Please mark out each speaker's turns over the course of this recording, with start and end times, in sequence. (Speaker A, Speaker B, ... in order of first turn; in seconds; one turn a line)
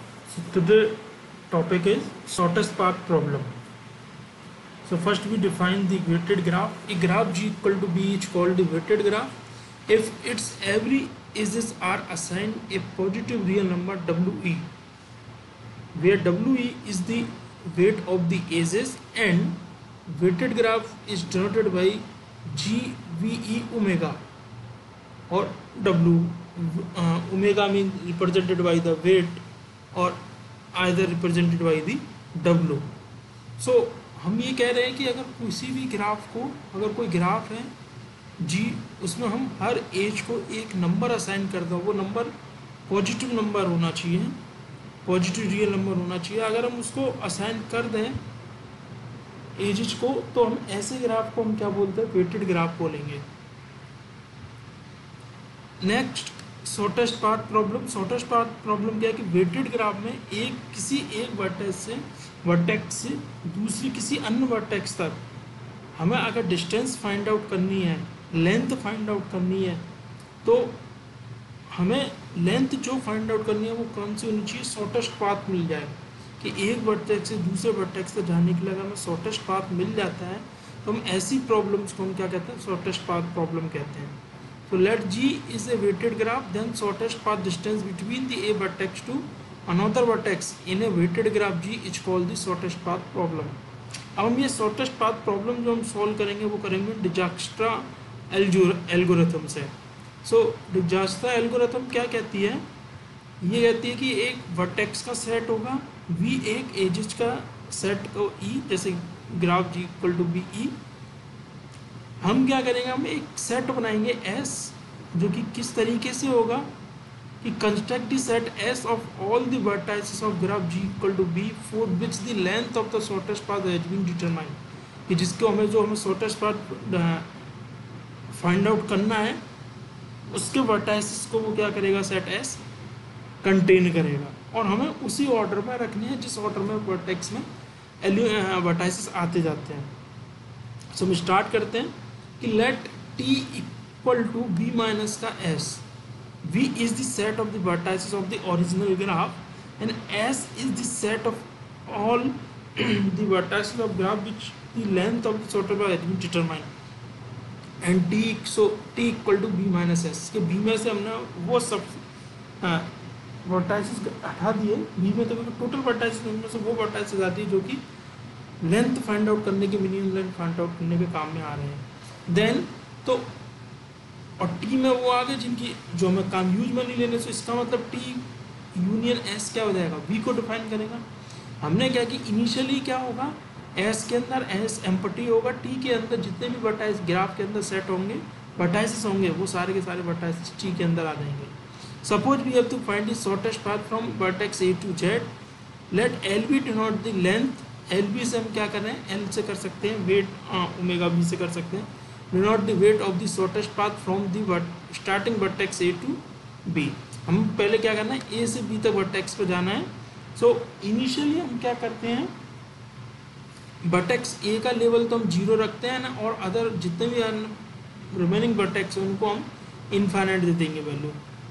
Speaker A: 0.3-3.5
Speaker A: 4.8-9.3
Speaker A: 9.9-14.7
Speaker A: 15.9-24.2
Speaker A: 25.3-29.4
Speaker A: 29.9-30.2
Speaker A: 30.7-32.9
Speaker A: 33.6-37.7
Speaker A: 38.4-42.3
Speaker A: 42.9-44.4
Speaker A: 45.1-48.2
Speaker A: 49.6-53.2
Speaker A: 55.8-65.2
Speaker A: 66.0-69.8
Speaker A: 70.4-70.8
Speaker A: 71.7-84.2
Speaker A: 84.7-93.6
Speaker A: 94.2-102.6
Speaker A: 103.4-110.7
Speaker A: 112.2-116.7
Speaker A: 117.4-124.6
Speaker A: 125.1-127.3
Speaker A: 128.3-129.4
Speaker A: 130.3-132.6
Speaker A: 133.4-137.4
Speaker A: 138.0-139.9
Speaker A: 140.9-145.8
Speaker A: 146.4-156.7
Speaker A: 157.8-162.0
Speaker A: 162.6-162.9
Speaker A: 163.4-167.8
Speaker A: 168.6-173.3
Speaker A: 174.4-178.2
Speaker A: 178.7-181.0
Speaker A: 181.6-195.3
Speaker A: 195.9-212.3
Speaker A: 213.8-217.6
Speaker A: 218.1-221.2